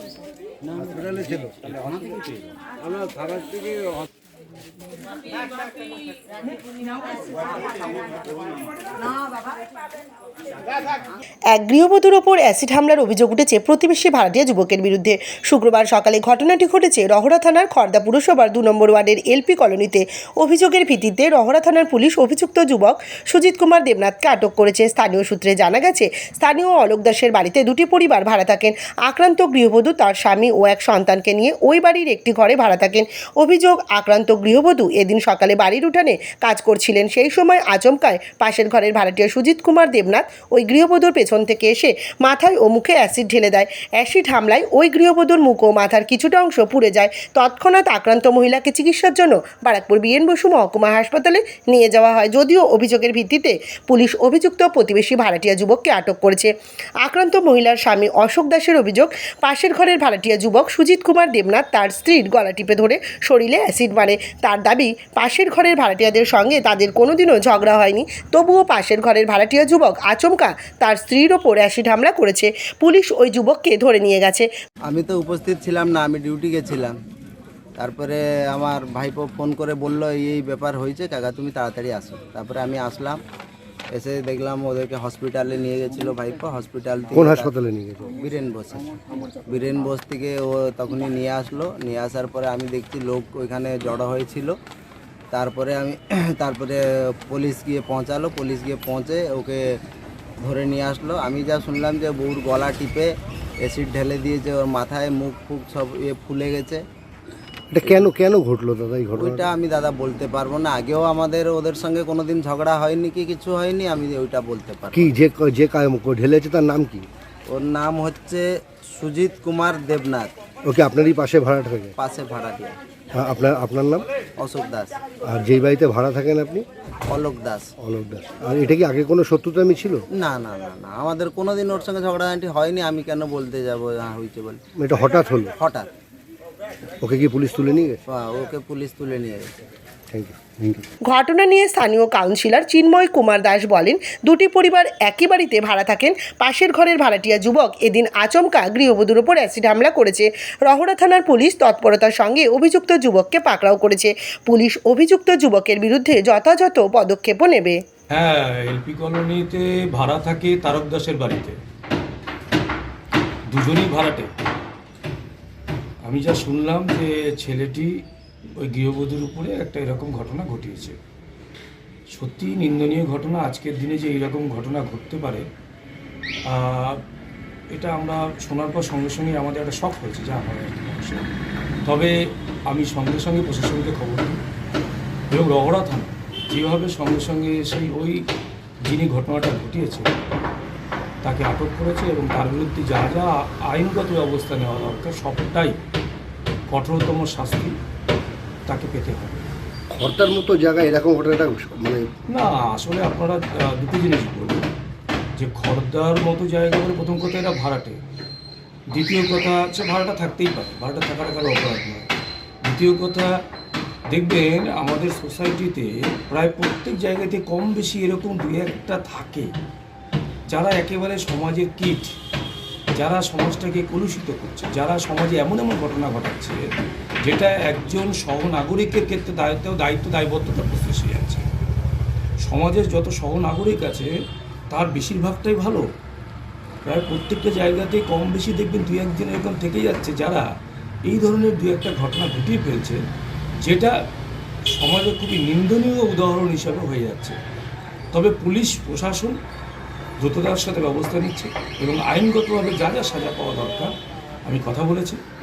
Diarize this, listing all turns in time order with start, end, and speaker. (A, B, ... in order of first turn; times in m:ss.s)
0:00.6-0:04.0 A
0:11.5-0:56.5 B
0:57.0-1:14.5 B
1:14.9-1:17.0 A
1:17.8-1:23.2 A
1:23.9-1:27.5 A
1:27.1-1:28.2 C
1:28.1-1:34.6 A
1:35.3-1:39.8 A
1:40.4-1:46.8 A
1:47.7-1:49.5 C
1:49.2-1:55.1 A
1:54.9-1:57.1 C
1:57.5-2:00.3 A
2:00.7-2:02.0 C
2:02.0-2:02.8 A
2:03.2-2:04.1 C
2:04.4-2:05.0 A
2:05.3-2:06.6 C
2:07.1-2:07.7 A
2:07.8-2:10.0 C
2:10.2-2:14.6 A
2:14.8-2:15.6 C
2:15.6-2:15.9 A
2:17.0-2:18.0 C
2:18.1-2:19.5 A
2:20.1-2:20.8 C
2:21.1-2:37.8 B
2:38.1-2:41.6 D
2:43.5-2:44.3 D
2:46.1-2:48.0 D
2:48.6-2:51.0 D
2:52.1-2:55.4 D
2:56.5-2:57.0 D
2:57.7-3:01.3 D
3:01.9-3:02.1 D
3:02.7-3:04.4 D
3:05.3-3:08.2 D
3:08.9-3:10.1 D
3:11.2-3:15.8 D
3:16.7-3:17.8 D
3:18.7-3:19.5 D
3:19.9-3:22.1 C
3:22.3-3:24.7 D
3:25.4-3:28.0 D
3:28.9-3:32.1 D
3:32.6-3:33.3 D
3:34.1-3:39.5 D
3:40.5-3:42.2 D
3:43.0-3:46.6 D
3:47.2-3:51.5 D
3:52.4-3:54.1 D
3:54.7-3:55.9 D
3:56.9-4:00.5 D
4:01.1-4:03.0 D
4:03.6-4:03.9 D
4:04.7-4:07.4 D
4:08.1-4:09.4 D
4:10.2-4:13.9 D
4:14.5-4:15.2 D